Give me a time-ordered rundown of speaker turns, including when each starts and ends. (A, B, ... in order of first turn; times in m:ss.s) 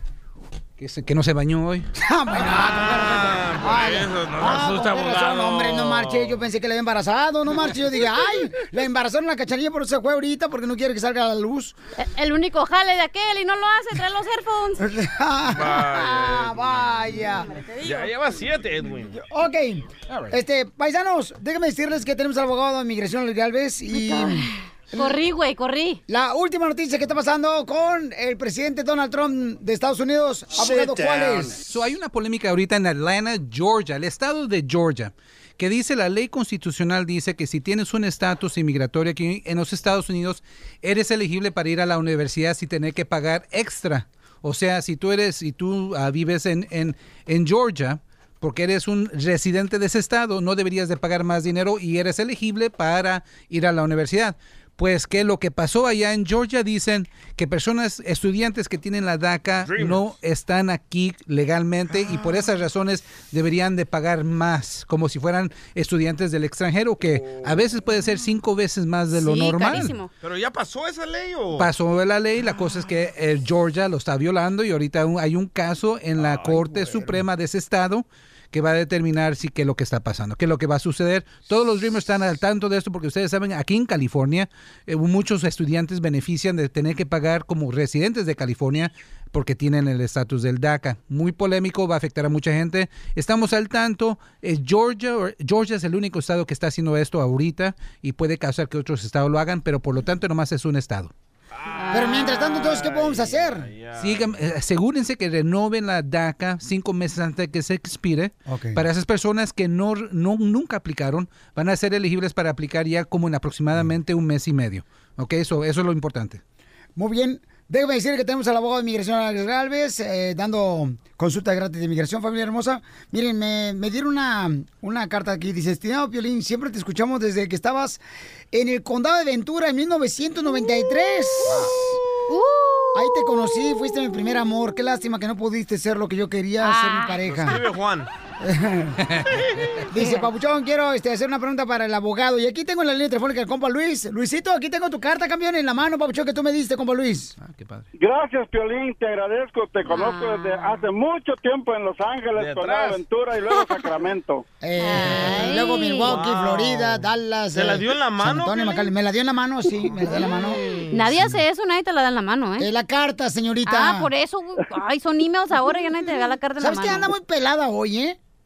0:00.8-0:01.8 A
0:01.9-0:11.7 B
0:02.3-0:06.4 C
0:12.0-0:14.8 D
0:14.8-0:17.5 B
0:15.5-0:17.1 C
0:17.6-0:18.1 D
0:17.8-0:19.2 C
0:19.1-0:25.2 B
0:23.9-0:26.0 D
0:26.1-0:31.6 B
0:31.5-1:10.0 A
0:59.6-1:00.0 C
1:09.1-1:10.1 D
1:10.2-1:11.7 C
1:11.6-1:41.1 A
1:16.2-1:17.2 C
1:41.5-1:42.0 C
1:41.7-1:42.4 D
1:41.9-1:43.7 B
1:42.5-1:44.3 C
1:44.0-1:56.4 A
1:48.4-1:48.8 B
1:57.0-2:08.0 B
2:08.5-2:12.0 B
2:12.3-2:13.6 D
2:12.9-2:17.6 B
2:16.6-2:17.2 D
2:17.2-2:18.1 C
2:18.4-2:19.0 B
2:19.3-2:19.6 C
2:19.9-2:27.3 B
2:20.0-2:20.2 D
2:27.4-2:27.9 A
2:28.0-2:34.4 E
2:29.8-2:30.8 D
2:32.3-2:33.0 C
2:33.5-2:33.9 D
2:34.6-2:40.6 B
2:34.8-2:36.1 D
2:36.0-2:38.9 C
2:40.0-2:41.0 C
2:40.9-2:42.7 D
2:42.6-2:44.1 B
2:43.6-2:47.1 D
2:46.6-2:48.2 B